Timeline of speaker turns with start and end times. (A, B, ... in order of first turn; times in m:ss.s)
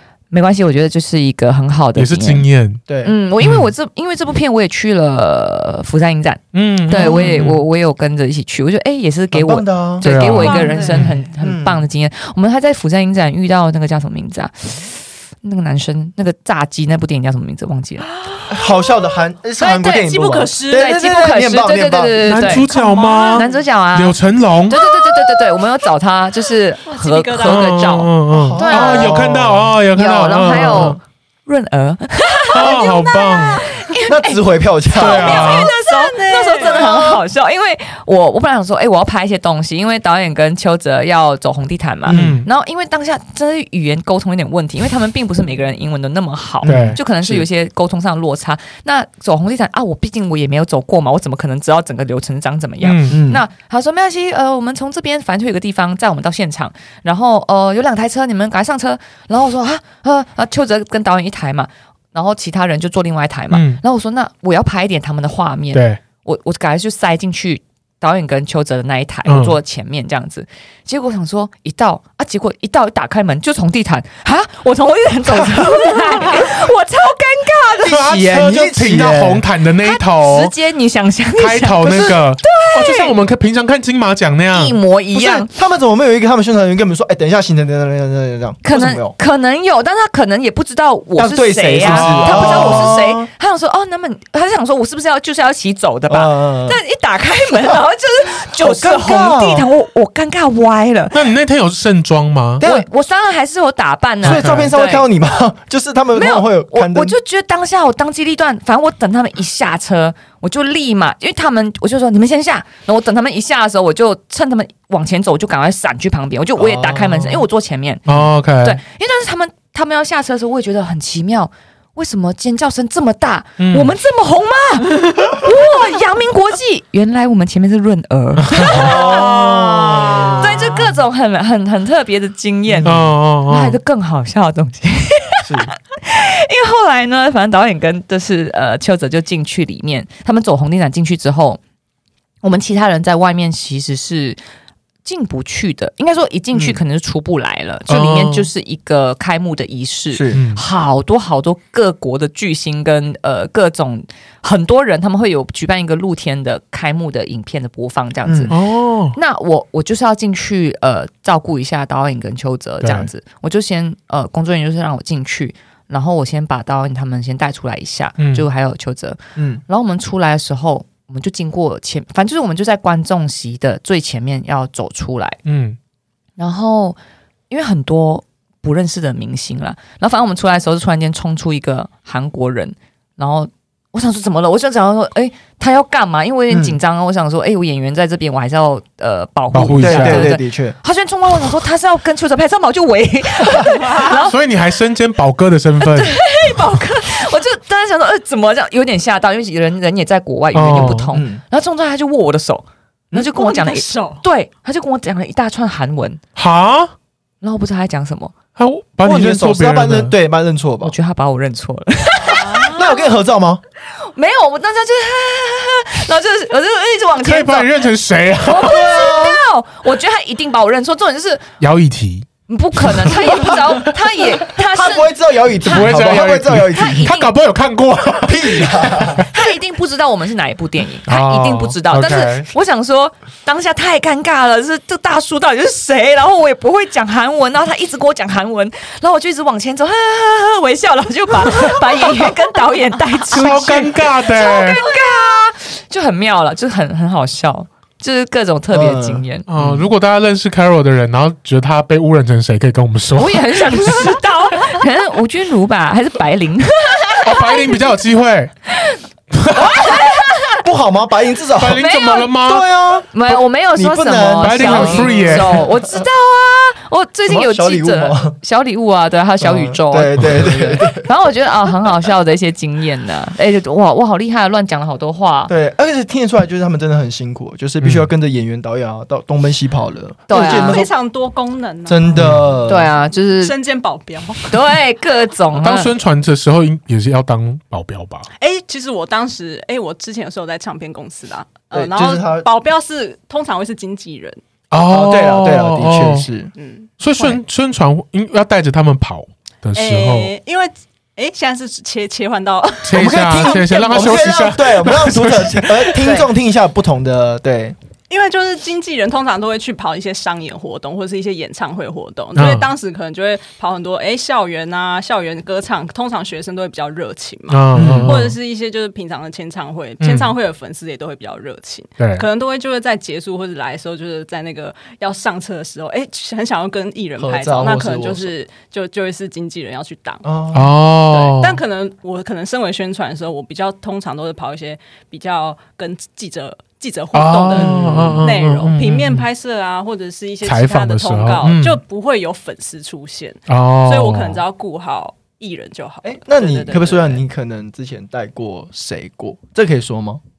0:00.3-0:02.4 A
0:02.0-0:02.8 B
0:02.9-0:03.2 C
0:03.0-0:18.1 A
0:03.4-0:03.7 B
0:06.5-0:07.6 B
0:06.9-0:07.4 C
0:09.3-0:11.8 C
0:10.0-0:11.1 B
0:10.4-0:11.1 D
0:18.1-0:20.9 D
0:18.5-0:22.5 C
0:20.7-0:22.7 A
0:22.2-0:24.8 B
0:22.4-0:23.6 D
0:23.3-0:34.4 A
0:24.7-0:25.6 D
0:26.8-0:27.7 D
0:27.4-0:31.0 B
0:28.3-0:29.8 C
0:32.5-0:33.6 B
0:32.6-0:33.8 D
0:34.0-0:35.5 C
0:34.9-1:18.1 A
0:34.9-0:35.7 B
0:35.0-0:37.2 D
0:42.1-0:42.4 C
0:42.1-0:42.5 B
0:46.6-0:47.5 C
0:46.6-0:47.0 B
0:52.8-0:53.2 B
0:53.1-0:53.4 C
1:03.5-1:03.8 B
1:05.7-1:06.0 B
1:09.2-1:09.6 B
1:15.3-1:16.4 C
1:17.8-1:19.4 C
1:17.8-1:20.5 B
1:19.8-1:23.1 A
1:21.4-1:24.8 B
1:21.8-1:22.1 C
1:24.5-1:25.5 A
1:25.1-1:29.1 C
1:28.6-1:41.3 A
1:31.2-1:33.3 C
1:31.8-1:33.0 B
1:36.1-1:36.8 C
1:38.5-1:39.6 C
1:41.1-1:42.6 B
1:42.6-1:42.9 C
1:42.6-1:45.1 A
1:44.2-1:44.7 B
1:44.2-1:47.1 C
1:46.1-1:58.0 A
1:56.6-1:57.4 C
1:58.0-1:58.8 B
1:58.6-2:21.6 A
2:03.6-2:03.9 B
2:08.5-2:08.8 B
2:08.7-2:10.4 D
2:08.7-2:10.8 C
2:12.7-2:13.1 C
2:12.8-2:13.8 B
2:15.4-2:15.7 C
2:22.4-2:24.4 A
2:25.0-2:38.5 A
2:26.5-2:26.8 C
2:27.9-2:28.5 B
2:30.1-2:30.4 C
2:30.3-2:30.6 B
2:38.2-2:38.5 C
2:38.5-2:39.2 B
2:39.1-2:55.4 A
2:42.8-2:43.1 B
2:48.2-2:48.5 B
2:49.4-2:49.6 C
2:55.4-2:55.8 B
2:56.4-2:57.0 A
2:57.5-3:14.4 A
3:06.5-3:06.8 C
3:09.5-3:10.3 B
3:09.8-3:10.8 C
3:13.8-3:14.1 D
3:14.1-3:16.3 B
3:15.8-3:26.2 A
3:20.5-3:21.2 B
3:21.1-3:21.4 C
3:23.3-3:24.2 D
3:26.4-3:26.9 B
3:27.4-3:28.3 A
3:28.6-3:30.1 B
3:29.0-3:30.9 C
3:30.8-3:33.0 A
3:32.2-3:33.1 D
3:32.6-3:33.6 C
3:34.0-3:37.7 A
3:37.2-3:38.8 B
3:38.4-3:41.4 A
3:38.6-3:39.4 C
3:41.6-3:42.3 B
3:42.5-3:45.1 A
3:42.8-3:43.2 B
3:43.3-3:43.6 C
3:44.5-3:47.1 C
3:45.6-3:49.3 B
3:45.6-3:47.3 A
3:48.2-3:49.3 C
3:49.3-4:09.5 A
3:51.0-3:52.5 B
4:03.3-4:04.8 B
4:08.7-4:09.9 C
4:09.5-4:14.1 B
4:13.2-4:17.8 A
4:17.2-4:18.5 B
4:19.3-4:20.0 B
4:19.5-4:20.6 A
4:19.8-4:26.0 C
4:21.6-4:22.6 B
4:21.6-4:22.3 A
4:23.1-4:35.5 A
4:24.4-4:25.6 B
4:27.2-4:28.4 C
4:29.4-4:31.1 C
4:35.5-4:40.9 C
4:37.8-4:38.1 B
4:40.3-4:40.8 A
4:40.3-4:42.2 D
4:41.8-4:42.9 C
4:42.2-4:42.4 B
4:42.6-4:43.5 A
4:43.4-4:44.6 D
4:44.5-4:45.9 A
4:45.6-4:48.3 B
4:48.4-4:54.4 D
4:51.7-4:52.5 C
4:54.7-4:56.3 B
4:54.8-4:56.5 C
4:56.6-4:57.4 D
4:57.0-5:00.3 B
4:59.7-5:04.4 D
5:02.8-5:06.1 B
5:02.9-5:07.8 C
5:08.1-5:30.3 D
5:12.3-5:12.7 B
5:17.5-5:18.3 B
5:17.7-5:18.3 C
5:20.0-5:20.3 B
5:22.0-5:22.2 B
5:27.2-5:28.3 C
5:30.2-5:30.8 C
5:30.5-5:31.6 B
5:30.8-5:47.2 D
5:37.1-5:39.2 B
5:37.5-5:38.3 C
5:40.4-5:41.8 B
5:43.5-5:44.4 B
5:46.0-5:50.2 C